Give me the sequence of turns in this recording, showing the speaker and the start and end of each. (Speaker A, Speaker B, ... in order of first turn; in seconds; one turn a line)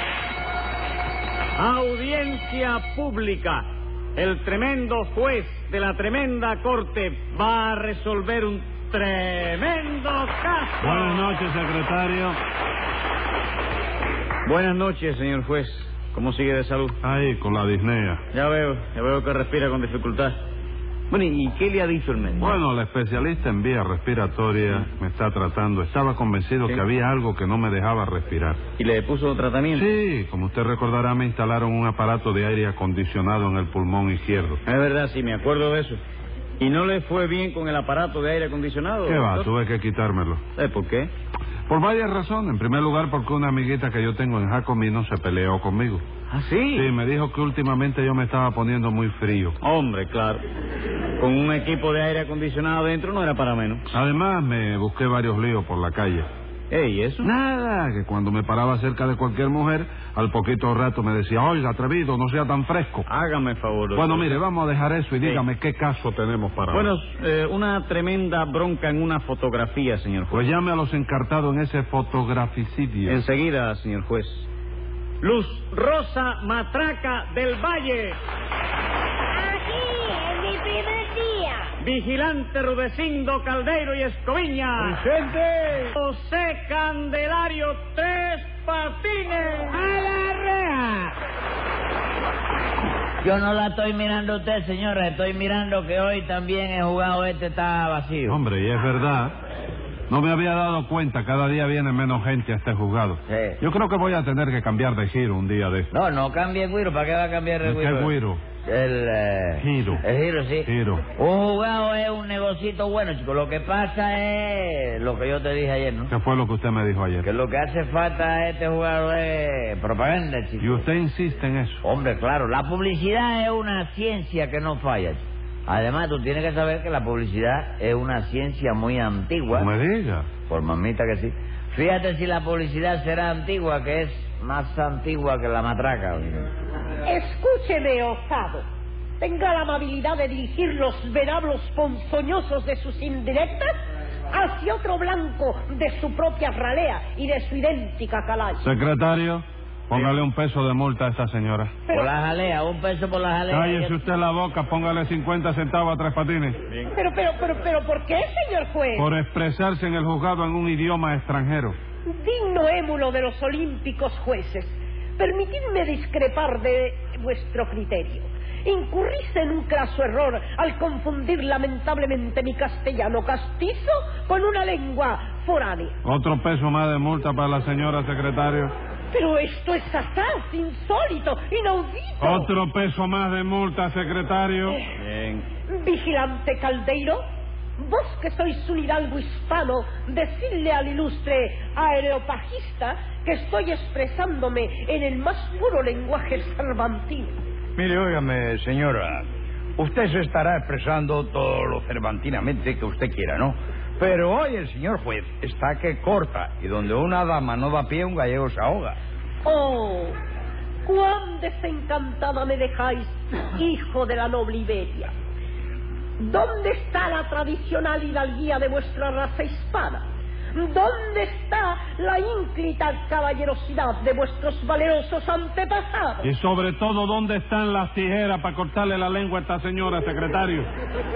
Speaker A: 1.6-11.3
Speaker B: 10.8-12.4
Speaker A: 14.4-17.0
Speaker B: 17.0-18.2
Speaker A: 18.3-20.4
Speaker A: 21.1-22.6
Speaker B: 22.4-28.6
Speaker A: 28.8-30.0
Speaker B: 29.7-34.6
Speaker A: 34.6-36.0
Speaker A: 36.6-39.5
Speaker B: 39.0-40.4
Speaker A: 40.5-41.1
Speaker B: 41.7-46.0
Speaker A: 46.3-46.9
Speaker B: 46.7-49.6
Speaker A: 49.6-50.4
Speaker A: 51.2-53.9
Speaker B: 53.9-56.3
Speaker A: 56.7-57.3
Speaker B: 57.2-63.0
Speaker A: 63.0-64.4
Speaker B: 64.0-66.9
Speaker A: 66.7-70.5
Speaker B: 70.3-73.2
Speaker A: 73.0-74.5
Speaker A: 75.2-78.2
Speaker C: 79.3-81.7
Speaker A: 81.8-85.0
Speaker B: 85.0-85.8
Speaker A: 85.8-89.8
Speaker D: 89.9-90.9
Speaker D: 93.2-98.4
Speaker B: 98.3-99.3
Speaker B: 100.1-105.9
Speaker D: 103.3-103.6
Speaker D: 105.9-116.1
Speaker B: 107.6-108.4
Speaker B: 109.6-110.0
Speaker B: 110.6-111.0
Speaker B: 116.1-117.3
Speaker D: 117.2-120.9
Speaker B: 120.6-121.8
Speaker D: 121.8-129.7
Speaker B: 129.5-130.3
Speaker D: 130.5-136.5
Speaker E: 137.0-138.6
Speaker E: 139.2-143.7
Speaker E: 144.3-148.6
Speaker B: 148.6-151.7
Speaker E: 151.9-152.1
Speaker D: 151.9-154.0
Speaker B: 153.5-156.6
Speaker E: 156.9-159.1
Speaker B: 158.9-161.8
Speaker E: 162.1-175.9
Speaker B: 176.0-178.7
Speaker E: 179.1-182.5
Speaker B: 182.2-184.8
Speaker A: 185.0-185.4
Speaker E: 185.7-187.2
Speaker E: 187.8-197.3
Speaker F: 197.8-199.2
Speaker F: 199.8-209.0
Speaker E: 209.4-210.1
Speaker E: 210.8-215.1
Speaker E: 216.2-220.0
Speaker E: 220.5-226.3
Speaker B: 226.2-230.7